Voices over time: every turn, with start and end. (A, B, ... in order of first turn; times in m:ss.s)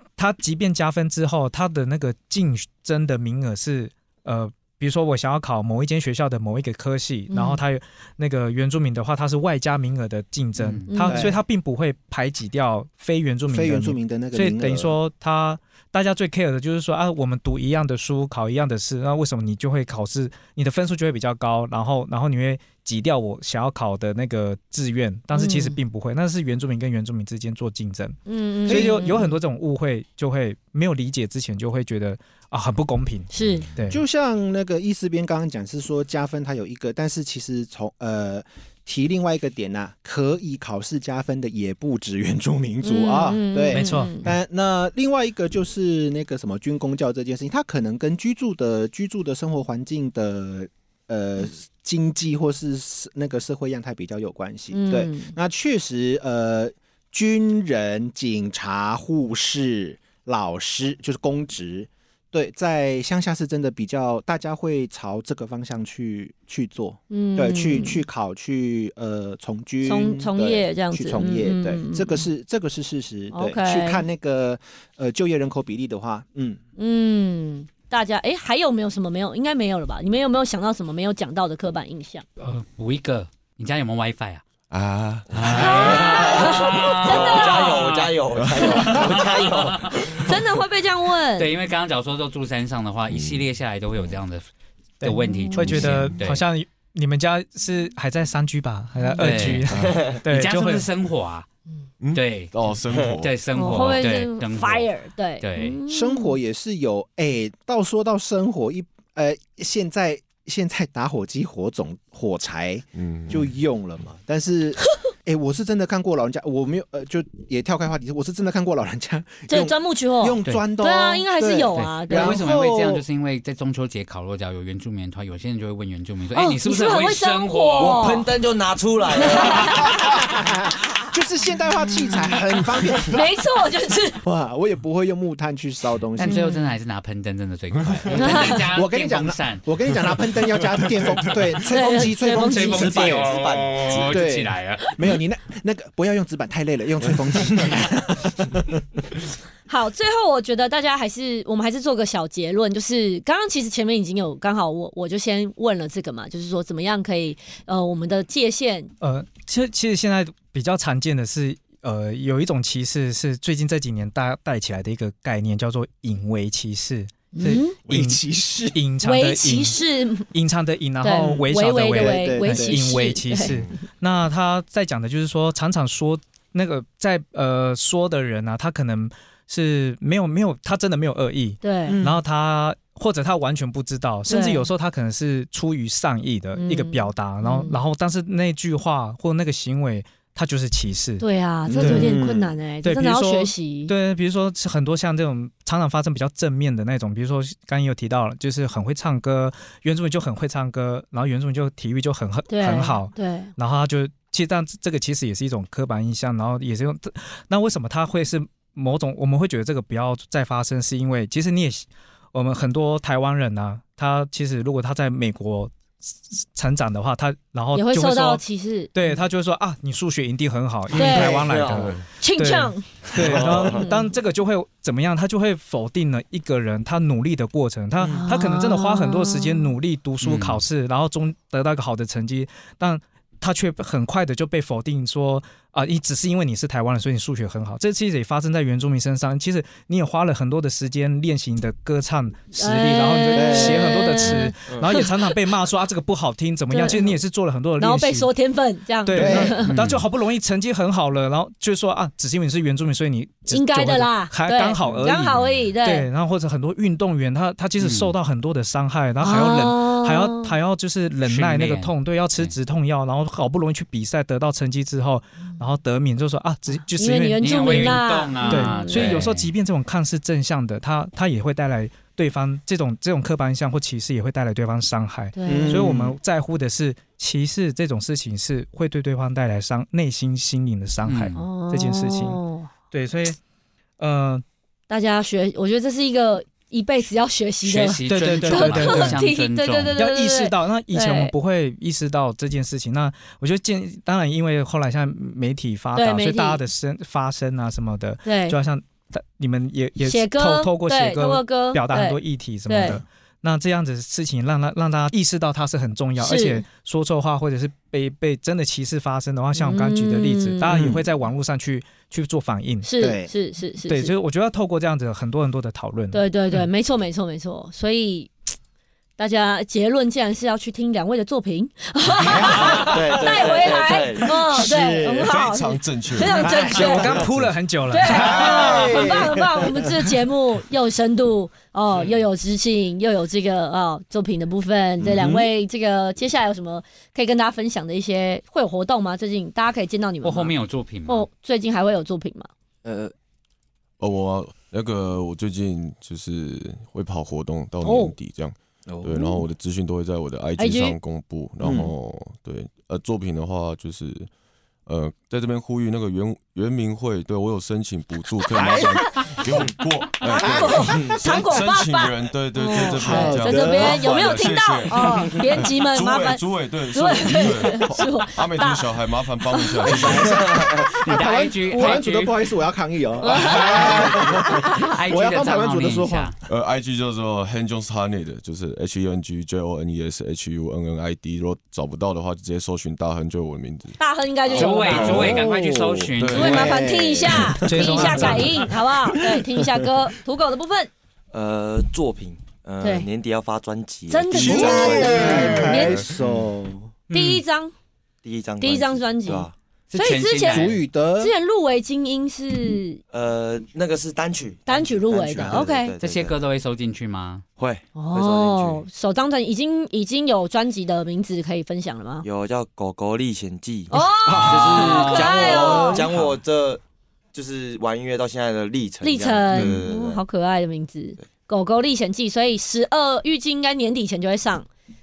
0:00.2-0:34.0 A
0:07.3-0:07.6 B
0:10.6-0:10.9 C
0:10.9-0:11.3 B
0:11.1-0:11.4 D
0:13.5-0:15.0 D
0:25.3-0:25.8 B
0:28.3-0:29.4 B
0:28.7-0:29.1 D
0:33.3-0:33.7 B
0:33.9-1:16.6 D
0:42.8-0:44.3 B
0:43.7-0:44.3 A
0:54.7-0:55.3 B
1:07.1-1:08.0 B
1:09.8-1:12.3 B
1:13.3-1:14.0 B
1:16.8-1:22.2 B
1:22.4-1:24.4 C
1:24.7-1:25.8 E
1:25.3-1:30.3 F
1:25.3-1:30.2 C
1:25.4-1:27.8 B
1:28.4-1:29.0 E
1:28.6-1:29.0 B
1:30.2-1:31.5 B
1:31.4-1:34.4 C
1:33.1-1:33.5 E
1:35.0-1:40.9 A
1:35.0-1:36.4 C
1:35.3-1:35.7 B
1:35.7-1:36.2 E
1:39.2-1:41.4 C
1:39.7-1:40.1 E
1:42.0-1:43.3 E
1:42.1-1:45.8 C
1:43.5-1:46.4 B
1:45.9-2:03.0 D
1:52.9-1:53.4 E
1:59.5-2:02.4 B
2:01.8-2:08.2 C
2:06.3-2:08.3 B
2:07.8-2:10.0 F
2:09.3-2:10.0 B
2:09.8-2:13.2 D
2:12.9-2:14.2 B
2:14.2-2:16.4 D
2:16.2-2:20.3 C
2:16.2-2:16.6 B
2:17.8-2:18.1 E
2:18.2-2:18.6 B
2:18.2-2:23.3 D
2:21.6-2:23.0 B
2:22.2-2:24.8 C
2:22.8-2:24.2 F
2:24.1-2:28.8 D
2:29.7-2:38.9 B
2:39.0-2:48.2 A
2:47.3-2:47.8 B
2:47.8-2:48.8 D
2:48.7-2:49.8 A
2:49.0-2:50.3 B
2:50.3-3:12.2 A
2:51.0-2:53.8 B
2:51.9-2:52.8 D
3:01.6-3:02.0 B
3:01.9-3:02.2 D
3:04.3-3:04.7 B
3:06.5-3:07.8 B
3:11.2-3:13.9 B
3:11.7-3:12.5 D
3:12.8-3:38.4 A
3:22.5-3:23.5 B
3:37.7-3:39.2 B
3:38.9-4:08.3 A
3:40.9-3:42.0 F
3:40.9-3:41.4 B
3:42.2-3:44.1 B
3:43.1-3:43.8 F
3:48.0-3:49.7 B
3:50.2-3:50.6 C
4:02.6-4:05.3 B
4:03.3-4:04.2 D
4:04.7-4:04.9 F
4:06.7-4:07.2 B
4:07.8-4:09.7 B
4:09.0-4:42.4 A
4:09.1-4:09.6 D
4:09.6-4:10.0 C
4:13.5-4:16.1 B
4:17.8-4:18.1 C
4:19.2-4:20.5 B
4:21.2-4:22.5 C
4:26.8-4:29.2 B
4:27.4-4:29.5 C
4:35.3-4:35.8 B
4:35.5-4:36.2 D
4:41.0-4:41.4 C
4:41.3-4:42.7 B
4:42.9-4:43.4 A
4:44.0-4:44.4 A
4:44.9-4:51.3 B
4:47.6-4:50.0 C
4:48.1-4:49.3 A
4:50.0-5:12.9 A
4:55.9-4:56.6 B
4:58.2-4:58.6 B
5:00.0-5:03.0 B
5:06.2-5:06.6 B
5:09.5-5:10.7 B
5:10.7-5:11.0 D
5:12.8-5:14.1 B
5:13.0-5:13.3 D
5:13.9-5:16.2 A
5:16.1-5:18.3 B
5:19.2-5:27.2 B
5:22.3-5:23.0 D
5:22.5-5:24.6 F
5:24.3-5:25.3 D
5:25.0-5:27.5 E
5:26.5-5:28.3 A
5:27.9-5:40.5 B
5:28.1-5:29.9 D
5:35.0-5:35.5 D
5:40.2-5:41.2 C
5:41.0-5:42.5 B
5:42.8-5:43.1 D
5:44.0-5:54.3 E
5:47.8-5:48.1 B
5:48.9-5:49.4 D
5:50.6-5:51.0 B
5:51.6-5:51.9 D
5:54.8-6:10.4 E
5:58.5-5:59.5 D
6:00.3-6:10.2 B
6:00.6-6:01.1 D
6:00.8-6:01.1 F
6:02.7-6:04.1 D
6:09.9-6:16.3 D
6:10.2-6:10.9 F
6:11.0-6:12.5 C
6:13.2-6:16.4 C
6:13.2-6:14.8 B
6:16.4-6:24.0 E
6:24.0-6:25.4 B
6:24.5-6:26.8 C
6:24.6-6:28.3 D
6:26.1-6:26.8 E
6:26.3-6:30.9 B
6:27.6-6:28.6 A
6:28.2-6:28.5 C
6:29.1-6:29.9 D
6:31.3-6:36.4 F
6:32.8-6:33.1 B
6:34.1-6:36.1 B
6:34.3-6:36.9 D
6:34.5-6:35.2 E
6:37.1-6:37.4 C
6:37.1-6:37.7 B
6:38.2-6:39.5 F
6:38.6-6:43.0 B
6:39.9-6:40.8 C
6:40.5-6:41.3 D
6:43.1-6:46.4 F
6:44.7-6:46.0 B
6:45.1-6:45.7 D
6:46.0-6:47.4 C
6:47.6-6:48.8 F
6:47.9-6:52.2 B
6:52.2-6:56.8 F
6:53.9-6:56.0 B
6:54.2-6:56.0 D
6:54.9-6:56.3 C
6:57.3-7:00.2 F
6:59.0-7:04.7 B
6:59.5-6:59.8 D